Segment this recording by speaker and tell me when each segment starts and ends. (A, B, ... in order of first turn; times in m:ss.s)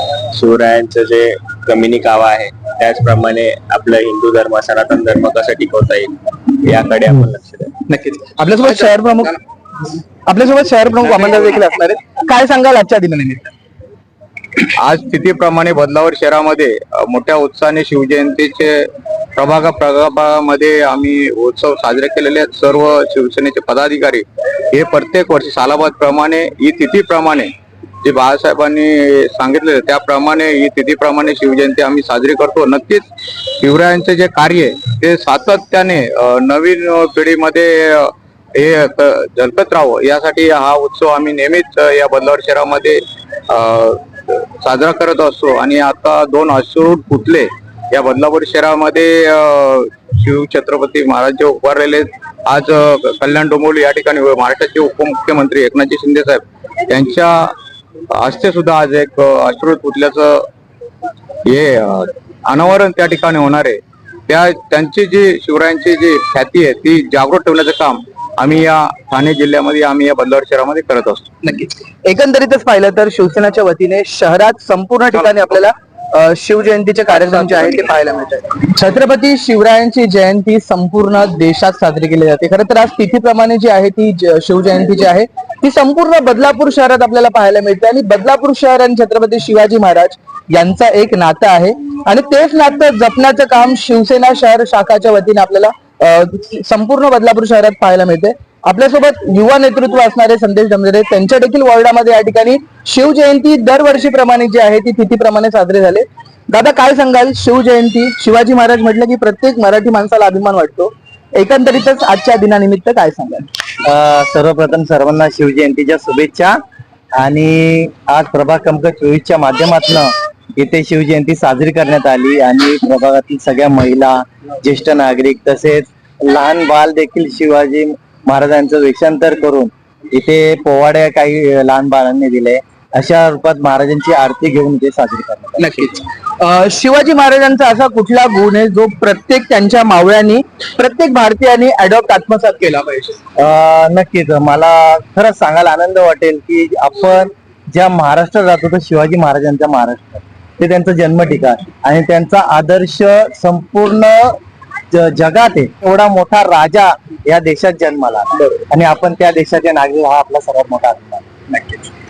0:00.3-0:07.7 A
0:07.8-0:09.4 B
0:10.3-0:13.5 B
0:14.8-0:27.5 C
0:28.0-0:33.0 C
0:33.6-0:57.5 C
0:58.2-1:00.4 C
1:01.5-1:11.3 C
1:11.4-1:53.5 B
1:17.2-1:17.7 C
1:53.8-1:56.6 D
1:57.2-2:15.8 D
2:15.6-2:23.2 B
2:23.4-2:34.4 D
2:34.9-2:41.6 D